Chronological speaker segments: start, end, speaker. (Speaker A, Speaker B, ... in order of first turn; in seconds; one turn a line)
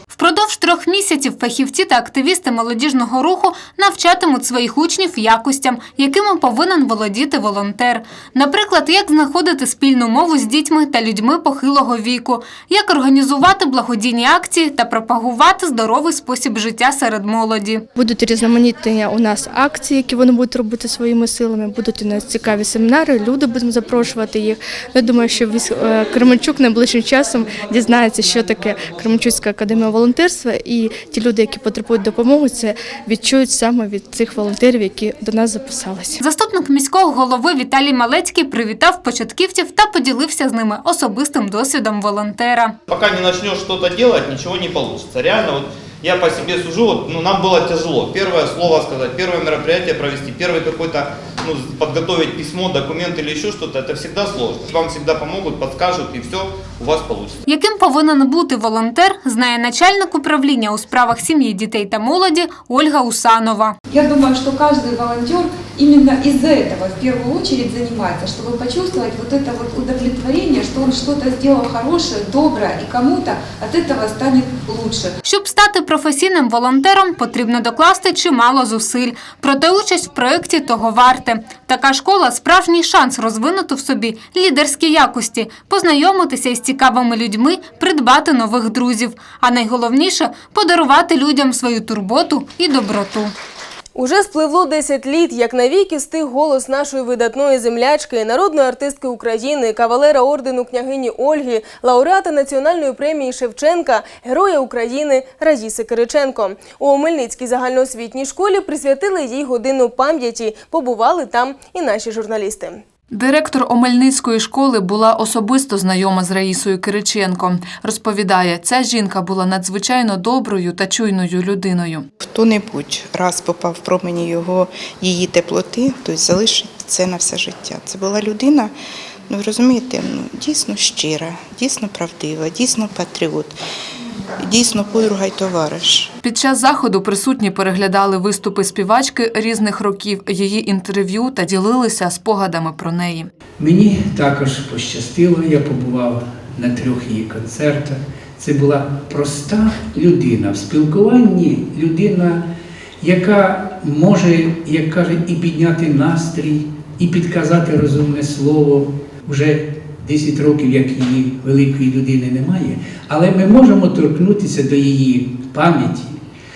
Speaker A: 0.1-17.8
Speaker B: 17.9-36.2
Speaker A: 36.2-42.8
Speaker C: 42.9-57.4
Speaker A: 57.5-63.8
Speaker D: 63.9-75.2
Speaker A: 75.2-93.3
Speaker E: 93.9-112.8
Speaker F: 113.1-122.1
Speaker G: 122.2-128.7
Speaker G: 129.3-133.6
Speaker G: 134.4-136.1
Speaker F: 136.2-143.3
Speaker H: 143.6-152.4
Speaker H: 153.0-166.2